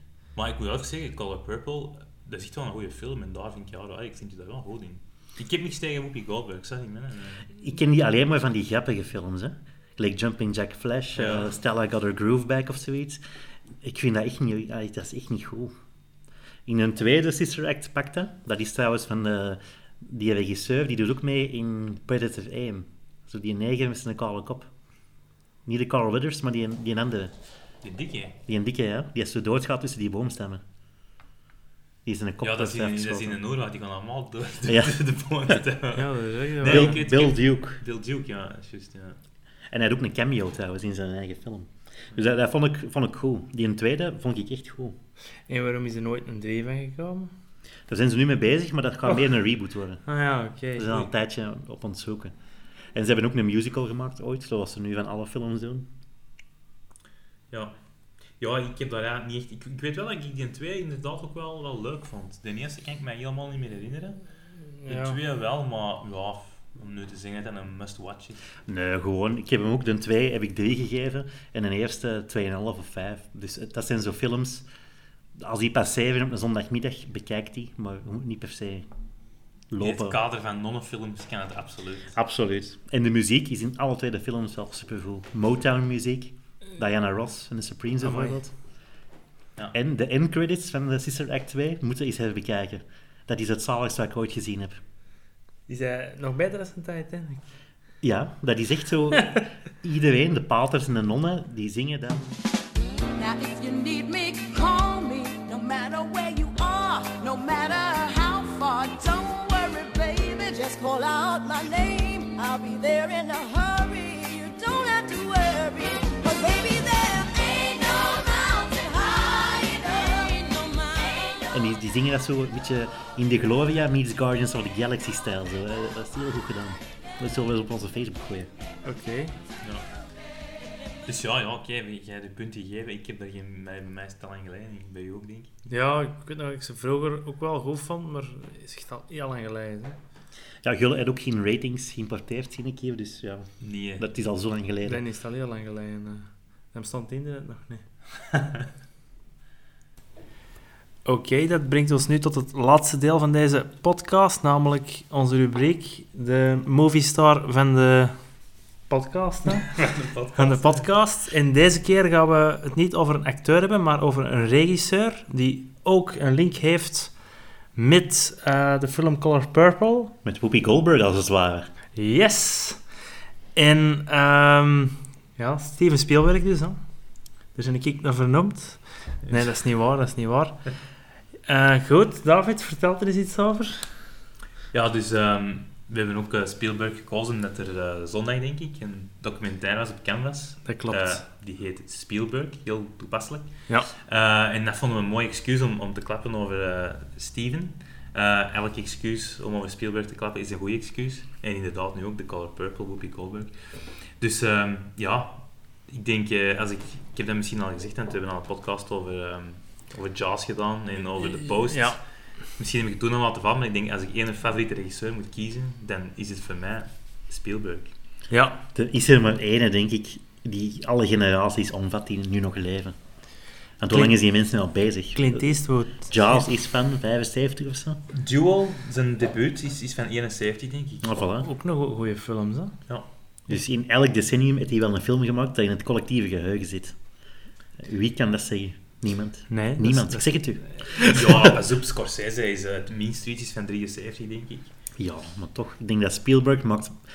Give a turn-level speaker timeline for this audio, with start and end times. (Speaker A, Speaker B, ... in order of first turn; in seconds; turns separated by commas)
Speaker A: 0.3-7.5, Speaker B: 7.6-13.2, Speaker A: 11.2-11.5, Speaker B: 13.8-15.7, Speaker B: 16.7-24.7, Speaker B: 25.7-27.3, Speaker A: 27.8-28.4, Speaker B: 28.5-30.6, Speaker B: 32.1-33.4, Speaker A: 32.4-39.2, Speaker B: 34.7-34.9, Speaker C: 36.0-37.0, Speaker B: 36.6-37.8, Speaker B: 39.7-45.0, Speaker C: 45.5-47.3, Speaker B: 47.9-50.0, Speaker C: 50.1-51.1, Speaker B: 50.8-52.3, Speaker B: 52.9-55.9, Speaker A: 58.4-64.2, Speaker C: 64.8-65.2, Speaker A: 64.9-68.4, Speaker B: 68.7-74.7, Speaker B: 75.4-78.9, Speaker B: 79.7-80.2, Speaker A: 79.8-82.1, Speaker B: 82.1-88.5, Speaker C: 88.0-88.4, Speaker B: 89.7-94.8, Speaker C: 95.7-97.4, Speaker B: 98.0-102.4, Speaker D: 103.2-121.5, Speaker B: 121.5-128.5, Speaker C: 128.8-129.4, Speaker A: 131.1-135.5, Speaker C: 135.7-140.0, Speaker B: 140.6-145.0, Speaker A: 143.6-144.1, Speaker C: 144.8-147.8, Speaker C: 151.1-158.2, Speaker C: 158.9-159.8, Speaker A: 159.7-160.9, Speaker C: 160.3-167.1, Speaker C: 167.8-170.1, Speaker B: 170.2-171.7, Speaker C: 172.0-172.8, Speaker C: 173.6-176.8, Speaker C: 177.6-180.6, Speaker C: 181.5-183.9, Speaker A: 184.7-212.0, Speaker C: 190.7-191.2, Speaker C: 211.5-212.0, Speaker A: 212.6-217.9, Speaker C: 218.3-218.6, Speaker B: 218.7-223.0, Speaker B: 223.8-228.0, Speaker C: 223.9-224.2, Speaker C: 225.1-226.2, Speaker A: 228.1-231.1, Speaker B: 231.0-231.5, Speaker C: 231.4-232.8, Speaker B: 233.5-237.0, Speaker B: 237.8-241.1, Speaker C: 239.5-241.1, Speaker A: 240.9-244.7, Speaker B: 245.0-246.9